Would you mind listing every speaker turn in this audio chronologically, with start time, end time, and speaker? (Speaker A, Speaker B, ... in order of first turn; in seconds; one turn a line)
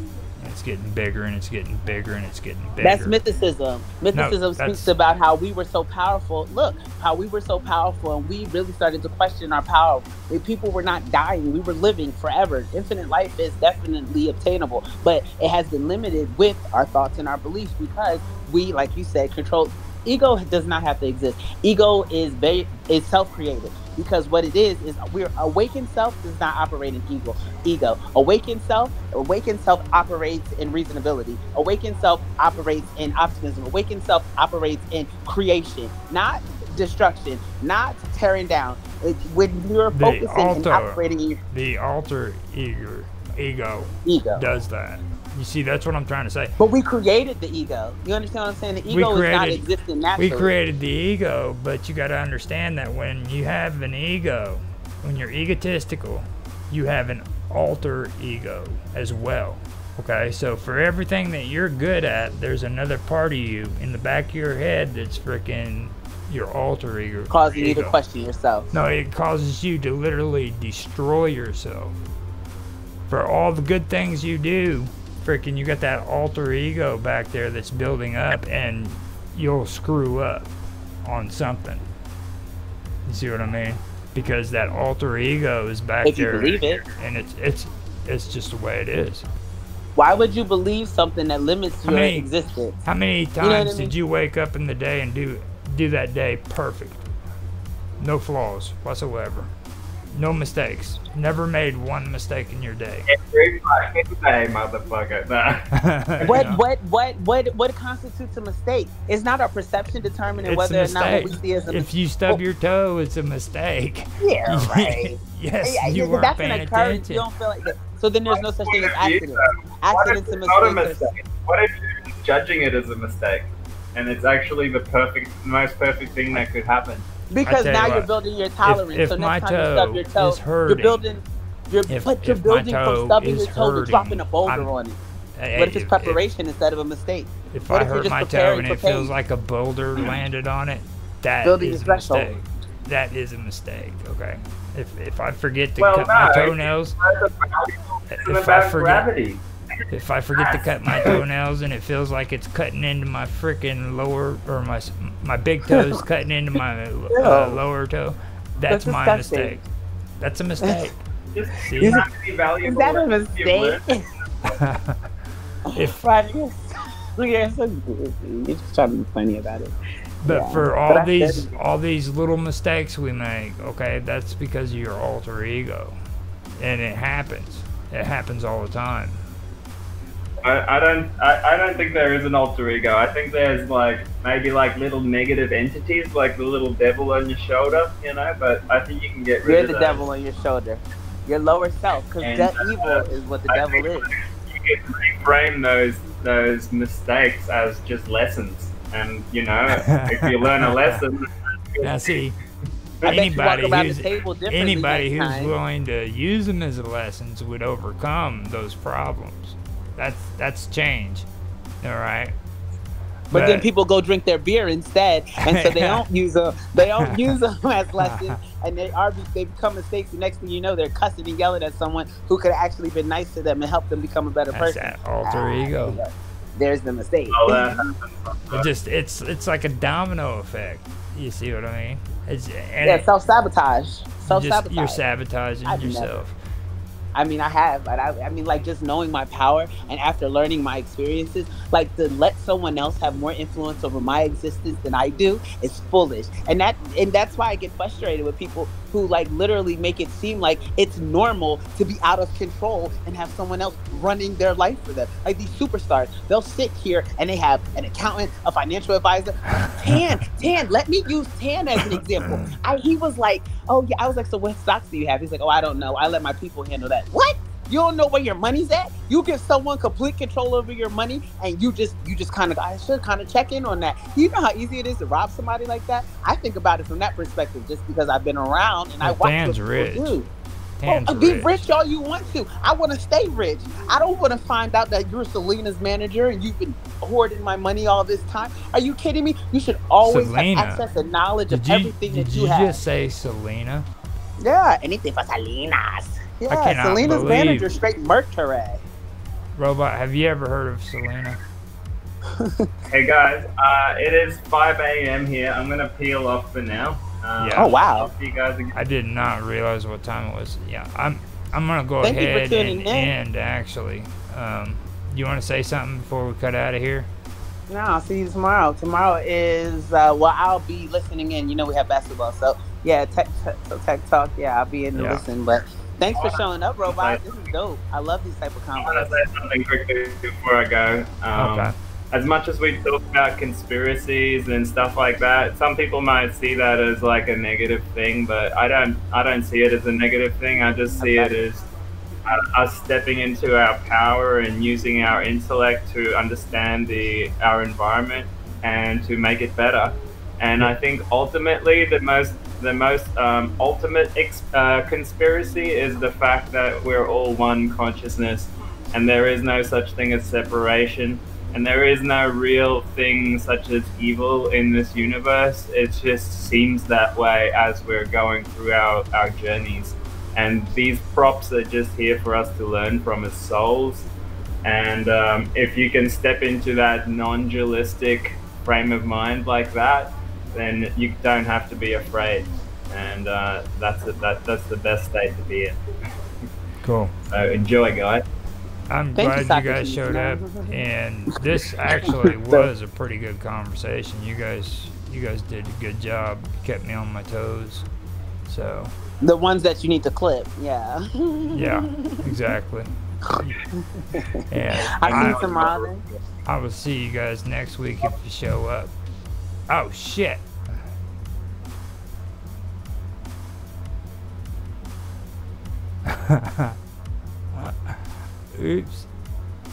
Speaker A: 0.4-3.1
Speaker B: 2.8-41.4
Speaker A: 4.1-4.9
Speaker A: 39.9-46.5
Speaker B: 44.0-44.4
Speaker B: 46.6-50.5
Speaker A: 48.9-49.6
Speaker A: 50.2-68.0
Speaker B: 67.3-68.7
Speaker A: 68.7-72.0
Speaker A: 73.1-81.9
Speaker A: 83.0-89.2
Speaker B: 86.0-86.8
Speaker B: 90.0-92.8
Speaker A: 91.8-92.3
Speaker A: 92.8-97.0
Speaker B: 93.4-93.9
Speaker A: 98.0-99.5
Speaker A: 100.2-103.1
Speaker C: 103.1-106.4
Speaker A: 105.7-106.6
Speaker B: 106.2-112.4
Speaker A: 110.4-117.3
Speaker B: 114.2-121.1
Speaker C: 118.3-127.1
Speaker B: 127.3-135.0
Speaker A: 127.4-128.1
Speaker A: 128.6-131.0
Speaker A: 131.9-134.7
Speaker A: 135.4-136.2
Speaker B: 135.6-139.1
Speaker A: 137.5-147.0
Speaker B: 141.4-142.3
Speaker C: 145.8-149.4
Speaker A: 148.1-149.1
Speaker A: 149.9-159.6
Speaker C: 150.4-151.2
Speaker B: 155.7-156.0
Speaker B: 157.1-157.6
Speaker B: 158.7-159.6
Speaker A: 160.2-161.0
Speaker C: 161.3-164.5
Speaker A: 161.5-162.0
Speaker B: 162.6-164.1
Speaker A: 164.5-165.1
Speaker B: 165.7-169.7
Speaker A: 165.7-166.0
Speaker A: 170.2-176.0
Speaker B: 170.2-171.5
Speaker A: 176.6-179.2
Speaker C: 180.4-190.1
Speaker B: 189.4-194.1
Speaker C: 192.2-202.2
Speaker A: 199.8-201.0
Speaker A: 201.8-202.3
Speaker A: 203.0-211.3
Speaker B: 203.1-205.5
Speaker A: 211.8-212.3
Speaker A: 213.3-213.7
Speaker B: 213.3-227.8
Speaker A: 215.4-216.0
Speaker A: 216.8-217.3
Speaker A: 218.0-218.4
Speaker A: 224.5-226.0
Speaker C: 227.3-228.7
Speaker A: 228.5-233.1
Speaker B: 232.8-235.0
Speaker A: 234.3-236.3
Speaker B: 235.6-236.2
Speaker B: 237.1-280.3
Speaker A: 259.6-260.0
Speaker A: 279.0-280.1
Speaker A: 280.8-281.7
Speaker B: 280.8-292.8
Speaker A: 290.0-290.9
Speaker A: 291.5-293.9
Speaker B: 294.4-298.8
Speaker A: 296.5-297.7
Speaker A: 299.6-301.4
Speaker B: 302.3-302.7
Speaker C: 302.9-308.8
Speaker A: 307.4-307.7
Speaker B: 307.5-308.1
Speaker A: 308.7-317.1
Speaker B: 312.0-313.1
Speaker B: 317.7-329.2
Speaker A: 324.9-325.2
Speaker C: 326.2-327.5
Speaker C: 328.8-341.6
Speaker A: 331.4-331.7
Speaker B: 341.0-341.4
Speaker C: 342.2-374.1
Speaker C: 374.6-385.8
Speaker A: 386.8-387.1
Speaker C: 387.3-388.2
Speaker A: 388.9-397.9
Speaker B: 389.1-390.8
Speaker B: 392.0-392.7
Speaker A: 398.4-398.9
Speaker B: 399.2-402.2
Speaker A: 401.5-403.6
Speaker B: 403.2-406.0
Speaker A: 404.5-405.5
Speaker C: 404.9-406.2
Speaker A: 406.4-408.9
Speaker A: 409.7-410.4
Speaker A: 416.1-416.8
Speaker A: 417.5-419.1